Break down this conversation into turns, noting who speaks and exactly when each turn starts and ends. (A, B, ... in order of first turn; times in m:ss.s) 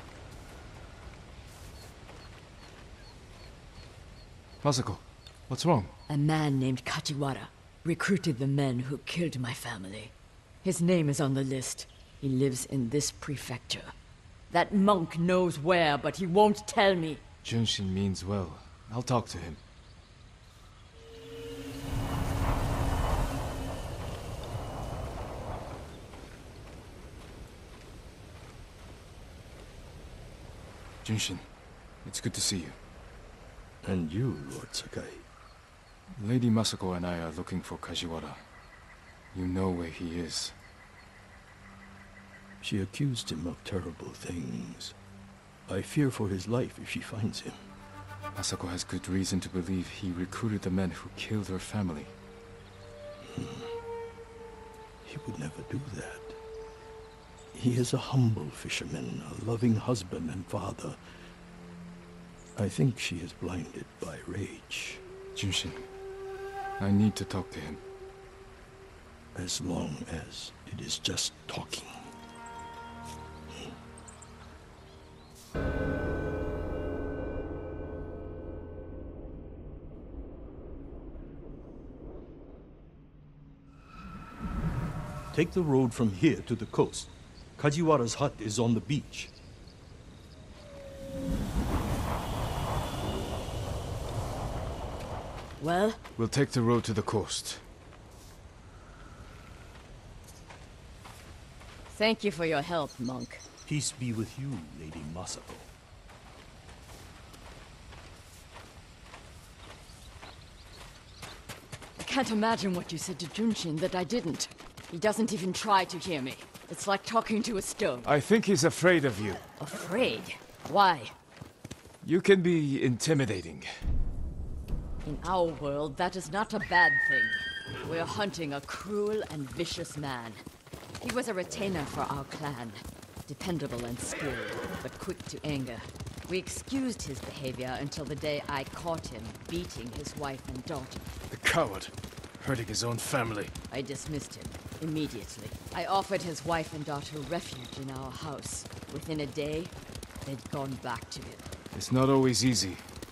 0:04.6-0:05.9 A
0:06.1-0:13.9 B
0:14.5-0:17.2 B
0:17.4-0:19.6 A
0:31.0-0:31.4 A
0:32.0-0:32.8 A
0:33.8-0:35.2 C
0:36.2-0:38.4 A
0:39.3-0:40.6 A
0:42.6-0:45.0 C
0:45.7-0:47.6 C
0:48.4-0:52.1 A
0:53.3-0:53.7 C
0:55.0-0:56.4 C
0:57.5-1:01.0 C
1:02.6-1:05.0 C
1:05.4-1:05.8 A
1:06.8-1:07.8 A
1:09.4-1:12.1 C
1:25.3-1:29.3 C
1:35.6-1:36.0 B
1:36.2-1:37.6 A
1:41.9-1:43.4 B
1:43.7-1:45.7 C
1:52.0-1:58.1 B
1:58.0-1:59.4 A
1:59.6-2:01.1 B
2:02.0-2:03.8 A
2:05.0-2:10.4 B
2:11.0-2:21.0 B
2:21.3-2:23.5 A
2:23.7-2:31.4 B
2:31.7-2:32.9 A